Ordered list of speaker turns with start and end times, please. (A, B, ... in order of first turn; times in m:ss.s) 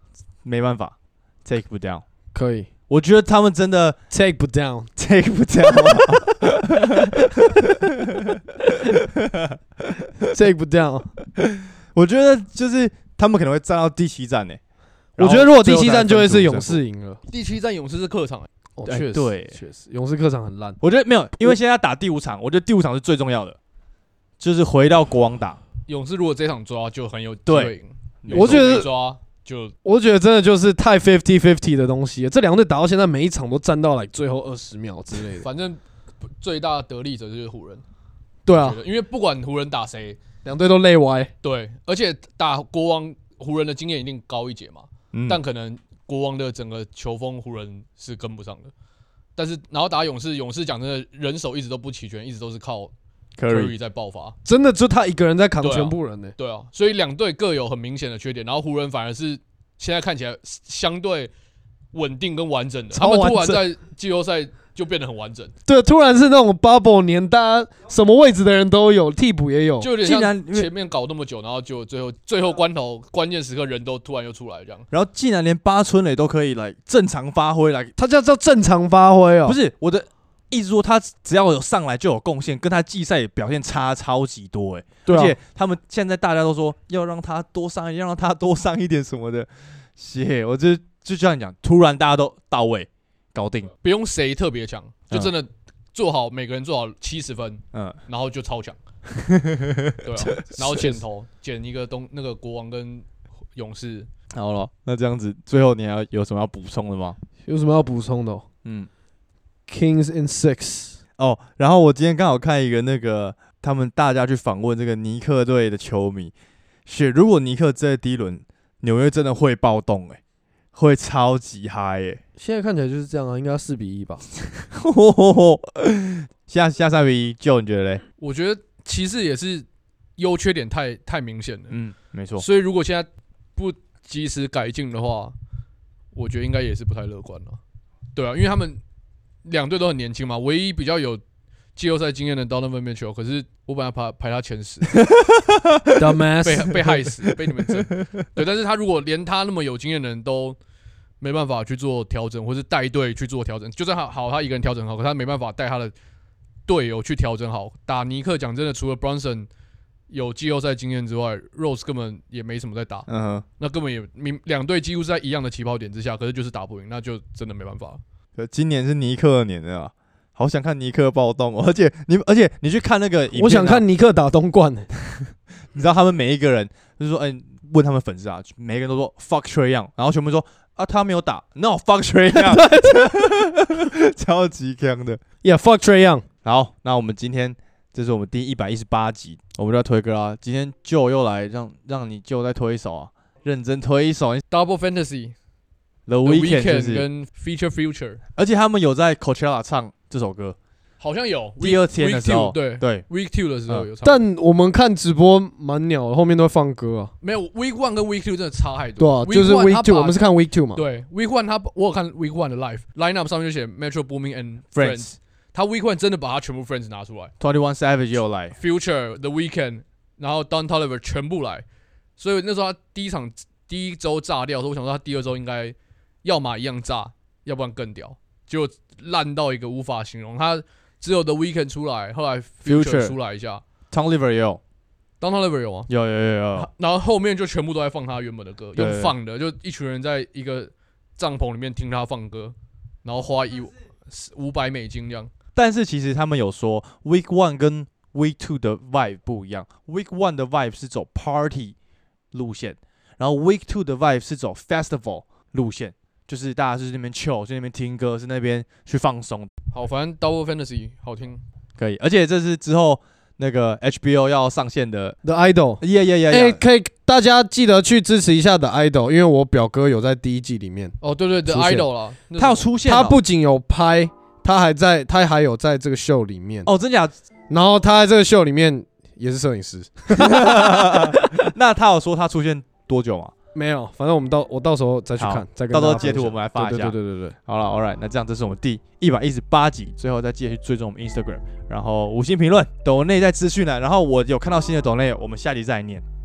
0:00.4-0:02.0 A
0:02.3-0:02.7 B
0:02.9-0:04.0 A
0:04.1-0:04.9 B
0:05.0-0:08.4 A
0:07.1-0:07.5 B
0:08.9-0:10.3 A
0:10.3-0:11.1 B
0:11.4-0:14.6 A
0:15.2-0:16.8 A
0:15.2-0:17.2 B
0:17.3-0:18.5 C
0:18.8-0:20.8 B
0:18.9-0:19.6 A
0:20.8-0:23.6 A
0:24.4-0:25.6 A
0:25.9-0:29.8 C
0:27.5-0:28.8 A
0:28.3-0:28.9 B
0:29.8-0:35.5 B
0:35.4-0:35.8 C
0:36.4-0:37.8 C
0:38.5-0:38.8 B
0:38.5-0:40.2 C
0:40.4-0:41.3 B
0:41.4-0:48.7 C
0:45.1-0:45.4 A
0:49.4-0:52.9 C
0:53.4-0:53.8 A
0:53.5-0:54.4 C
0:54.4-0:56.4 B
0:55.6-1:01.3 C
1:01.9-1:05.5 C
1:02.9-1:03.6 B
1:05.7-1:09.9 B
1:09.8-1:14.9 C
1:10.0-1:10.7 A
1:14.9-1:17.9 A
1:18.0-1:19.6 B
1:19.5-1:33.7 A
1:25.1-1:25.4 B
1:33.8-1:38.8 C
1:39.1-1:41.0 A
1:40.0-1:44.1 C
1:44.3-1:47.2 A
1:47.4-1:48.4 B
1:48.6-1:48.9 A
1:49.7-1:51.0 B
1:51.2-1:56.3 A
1:56.9-2:00.2 A
2:00.8-2:02.2 A
2:02.4-2:04.2 B
2:04.7-2:08.0 A
2:08.2-2:09.7 C
2:10.2-2:11.8 C
2:11.7-2:12.5 A
2:12.4-2:15.4 C
2:16.1-2:17.6 C
2:18.1-2:18.8 C
2:19.4-2:21.2 C
2:21.8-2:25.0 C
2:25.1-2:26.0 A
2:26.0-2:26.8 B
2:26.4-2:30.6 C
2:31.2-2:35.9 C
2:36.7-2:39.5 C
2:40.1-2:43.1 C
2:43.1-2:43.4 A
2:43.6-2:48.0 C
2:48.4-2:53.8 A
2:53.3-2:54.9 B
2:55.1-3:05.2 A
3:02.3-3:03.1 B
3:05.4-3:06.2 B
3:06.4-3:14.4 A
3:14.5-3:15.4 C
3:16.1-3:17.0 A
3:16.2-3:18.2 C
3:18.4-3:20.6 A
3:21.0-3:24.2 C
3:21.6-3:23.0 A
3:24.0-3:27.1 B
3:27.2-3:30.2 C
3:29.0-3:30.8 B
3:30.8-3:37.3 C
3:34.8-3:35.1 A
3:37.4-3:38.6 A
3:38.6-3:41.6 C
3:42.2-3:53.6 C
3:52.7-3:53.2 A
3:53.9-3:54.6 A
3:55.2-3:55.9 C
3:55.9-3:56.7 A
3:56.6-4:05.3 C
3:58.8-3:59.2 A
4:05.6-4:11.8 A
4:12.3-4:19.5 A
4:19.7-4:21.4 C
4:21.8-4:25.2 A
4:25.2-4:31.0 B
4:25.8-4:26.6 A
4:31.0-4:32.7 C
4:31.5-4:31.8 B
4:32.4-4:33.2 A
4:32.8-4:36.7 B
4:36.7-4:37.1 A
4:37.5-4:41.5 B
4:40.1-4:43.3 A
4:43.6-4:47.4 B
4:45.2-4:47.0 A
4:47.5-4:56.0 A